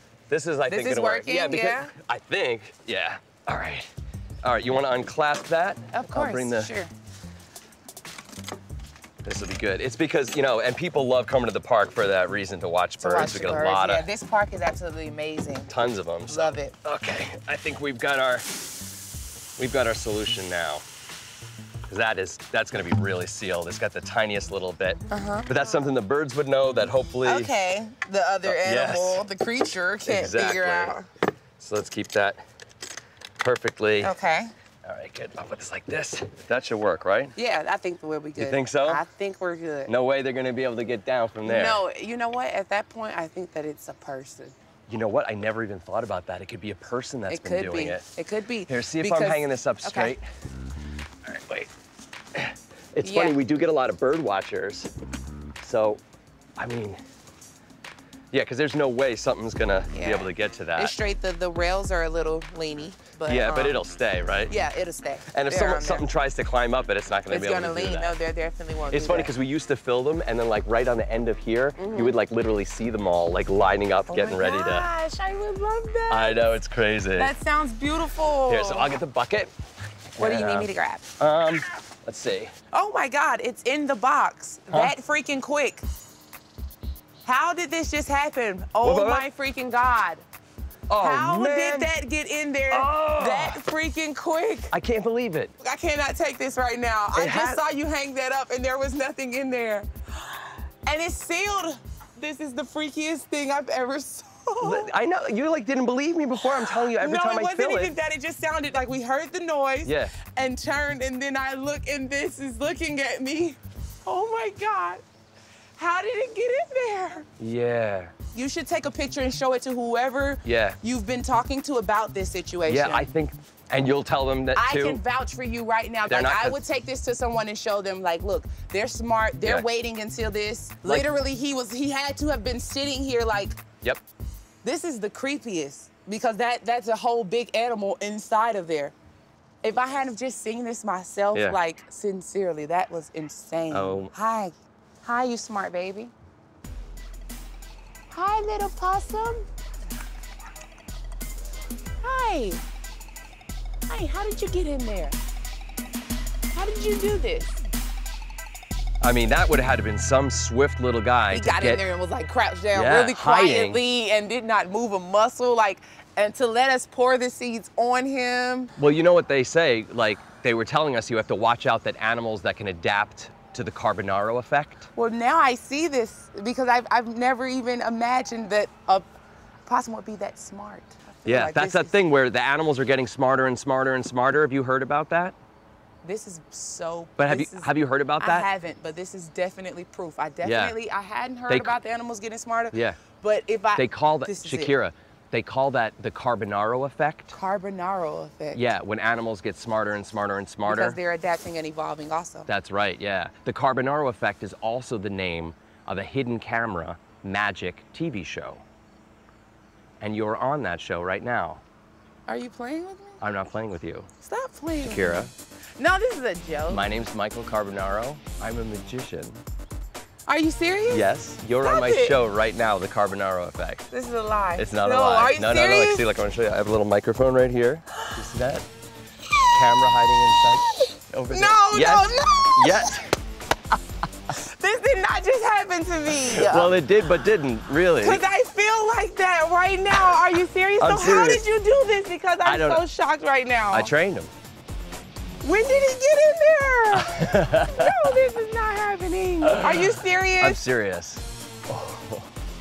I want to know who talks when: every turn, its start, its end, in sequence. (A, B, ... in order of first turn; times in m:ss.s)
0:00.3-0:03.9 A
0:00.7-0:01.9 B
0:04.4-0:06.7 A
0:05.9-0:06.9 B
0:09.2-0:14.1 A
0:13.0-0:16.8 B
0:15.7-0:18.5 A
0:19.6-0:20.8 A
0:21.9-0:27.5 A
0:25.1-0:25.7 B
0:27.2-0:31.1 B
0:28.4-0:29.2 A
0:30.0-0:31.0 A
0:31.6-0:32.4 A
0:33.4-0:34.1 A
0:34.0-0:34.5 B
0:34.8-0:37.4 A
0:37.4-0:39.9 B
0:38.4-0:39.0 A
0:39.9-0:41.8 A
0:41.4-0:44.6 B
0:44.9-0:48.1 A
0:47.3-0:50.2 B
0:48.7-0:50.2 A
0:51.3-0:51.7 A
0:52.3-0:54.9 A
0:53.0-0:53.4 B
0:55.6-0:56.0 A
0:56.6-0:57.0 A
0:58.3-1:01.0 A
0:59.9-1:03.8 B
1:03.3-1:04.6 A
1:04.5-1:06.1 B
1:05.3-1:08.2 A
1:07.3-1:09.3 B
1:08.9-1:14.9 A
1:11.8-1:12.2 B
1:14.1-1:16.6 B
1:16.1-1:17.3 A
1:17.2-1:19.0 B
1:18.5-1:19.5 A
1:20.2-1:20.7 A
1:20.2-1:21.1 B
1:21.2-1:22.5 A
1:22.7-1:25.8 B
1:24.7-1:25.0 A
1:27.2-1:30.2 B
1:28.8-1:29.3 A
1:30.9-1:31.9 A
1:31.0-1:34.7 B
1:32.7-1:33.6 A
1:34.7-1:35.5 A
1:35.6-1:44.9 B
1:37.1-1:37.6 A
1:44.6-1:47.9 A
1:46.4-1:55.0 B
1:49.8-1:50.2 A
1:55.8-1:57.3 B
1:57.4-1:58.1 A
1:58.3-2:03.1 B
2:00.4-2:00.8 A
2:02.7-2:05.0 A
2:04.6-2:13.6 B
2:06.1-2:06.6 A
2:10.8-2:11.1 A
2:14.6-2:19.0 B
2:19.6-2:26.1 B
2:23.7-2:24.1 A
2:28.1-2:29.5 B
2:32.0-2:32.6 B
2:33.9-2:35.2 B
2:36.5-2:37.6 B
2:39.0-2:41.8 A
2:41.3-2:48.7 B
2:42.7-2:43.8 A
2:48.8-2:54.9 A
2:55.0-2:59.1 B
2:59.7-3:02.0 B
3:01.3-3:05.4 A
3:06.0-3:14.7 B
3:07.2-3:08.5 A
3:10.4-3:10.8 A
3:11.5-3:11.8 A
3:12.7-3:13.0 A
3:13.8-3:17.3 A
3:17.3-3:18.6 B
3:18.5-3:21.0 A
3:20.6-3:22.5 B
3:22.5-3:28.6 A
3:30.0-3:31.6 A
3:32.3-3:33.2 B
3:33.2-3:34.1 A
3:34.2-3:35.3 B
3:34.8-3:35.3 A
3:35.8-3:36.9 B
3:36.7-3:39.4 A
3:40.3-3:41.1 B
3:40.9-3:43.9 A
3:41.6-3:42.2 B
3:43.9-3:46.1 B
3:44.6-3:48.7 A
3:49.5-3:53.1 A
3:50.7-3:53.1 B
3:54.3-3:56.8 B
3:56.3-3:58.2 A
3:58.0-4:03.9 B
4:00.8-4:01.5 A
4:02.4-4:02.9 A
4:03.7-4:04.3 A
4:05.4-4:10.6 B
4:06.9-4:08.1 A
4:09.5-4:12.3 A